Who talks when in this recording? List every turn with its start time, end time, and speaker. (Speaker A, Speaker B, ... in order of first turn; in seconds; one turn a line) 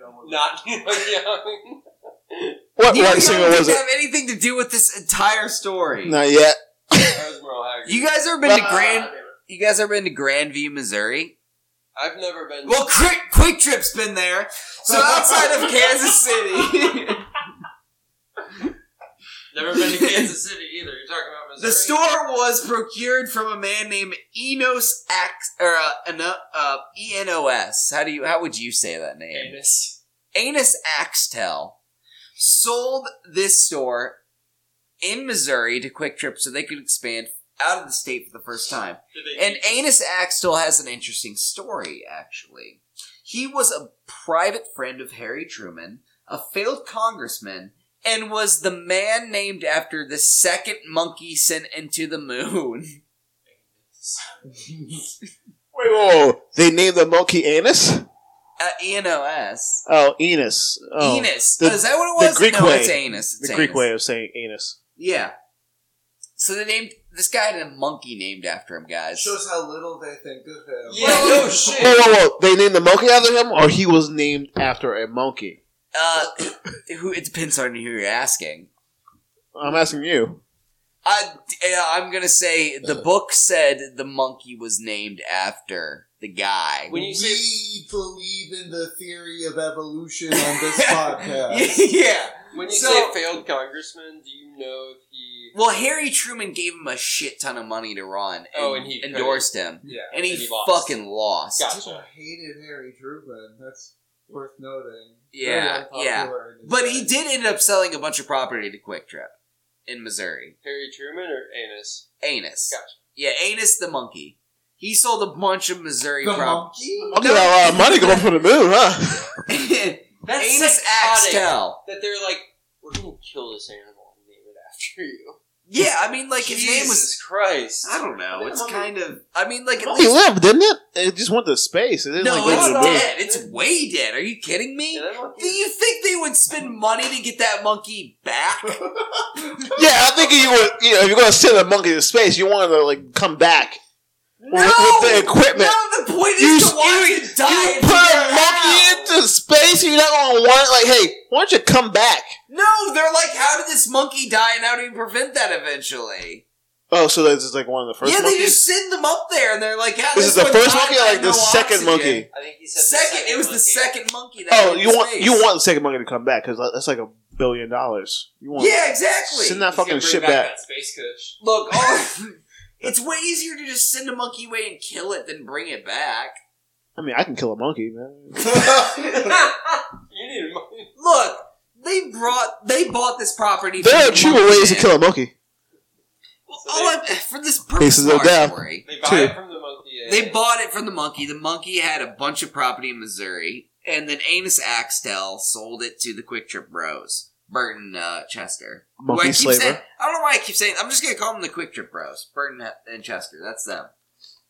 Speaker A: 0.2-2.6
Speaker B: 2.8-3.8
Speaker C: 2.9-6.2
Speaker B: 6.0-7.2
Speaker A: 7.0-8.1
Speaker C: 7.8-11.3
Speaker B: 8.4-9.0
Speaker A: 11.9-12.9
Speaker C: 12.7-17.3
Speaker A: 19.5-22.0
Speaker C: 19.8-20.3
Speaker C: 21.6-29.6
Speaker A: 29.3-30.0
Speaker C: 30.3-31.8
Speaker C: 32.4-34.2
Speaker C: 35.0-53.0
Speaker A: 39.1-39.9
Speaker A: 53.5-54.3
Speaker D: 54.6-55.0
Speaker B: 55.7-58.1
Speaker C: 58.6-59.8
Speaker B: 59.9-64.8
Speaker C: 61.0-63.9
Speaker C: 65.0-65.3
Speaker C: 66.4-69.3
Speaker D: 69.1-71.8
Speaker A: 70.8-72.0
Speaker C: 71.0-72.0
Speaker B: 71.7-75.6
Speaker C: 75.9-78.7
Speaker B: 79.5-80.4
Speaker C: 81.0-87.0
Speaker A: 86.9-87.5
Speaker D: 86.9-91.8
Speaker C: 90.4-93.2
Speaker A: 92.5-95.5
Speaker C: 95.5-101.7
Speaker A: 98.5-100.9
Speaker A: 101.6-102.1
Speaker D: 101.7-107.1
Speaker C: 105.3-109.3
Speaker C: 109.9-110.5
Speaker A: 110.6-112.1
Speaker C: 112.2-118.3
Speaker A: 112.7-113.0
Speaker D: 116.2-117.2
Speaker B: 117.1-119.3
Speaker C: 119.5-121.8
Speaker A: 120.2-125.4
Speaker C: 125.7-127.2
Speaker A: 126.4-128.8
Speaker C: 127.8-130.2
Speaker B: 129.8-133.1
Speaker C: 132.2-138.8
Speaker A: 132.4-133.6
Speaker A: 134.9-135.6
Speaker D: 138.8-139.3
Speaker B: 139.7-143.8
Speaker C: 144.4-149.1
Speaker B: 144.5-145.8
Speaker B: 146.4-152.3
Speaker C: 152.5-156.4
Speaker B: 156.9-158.6
Speaker C: 158.0-165.4
Speaker B: 160.1-162.3
Speaker A: 162.3-163.9
Speaker B: 164.5-170.5
Speaker C: 168.6-169.6
Speaker A: 169.7-171.4
Speaker C: 171.4-176.3
Speaker B: 176.9-178.8
Speaker A: 178.6-180.9
Speaker C: 181.0-184.9
Speaker B: 183.8-185.3
Speaker A: 186.5-187.0
Speaker C: 186.5-188.8
Speaker B: 187.8-189.3
Speaker A: 188.8-190.4
Speaker C: 190.1-203.9
Speaker B: 199.0-199.8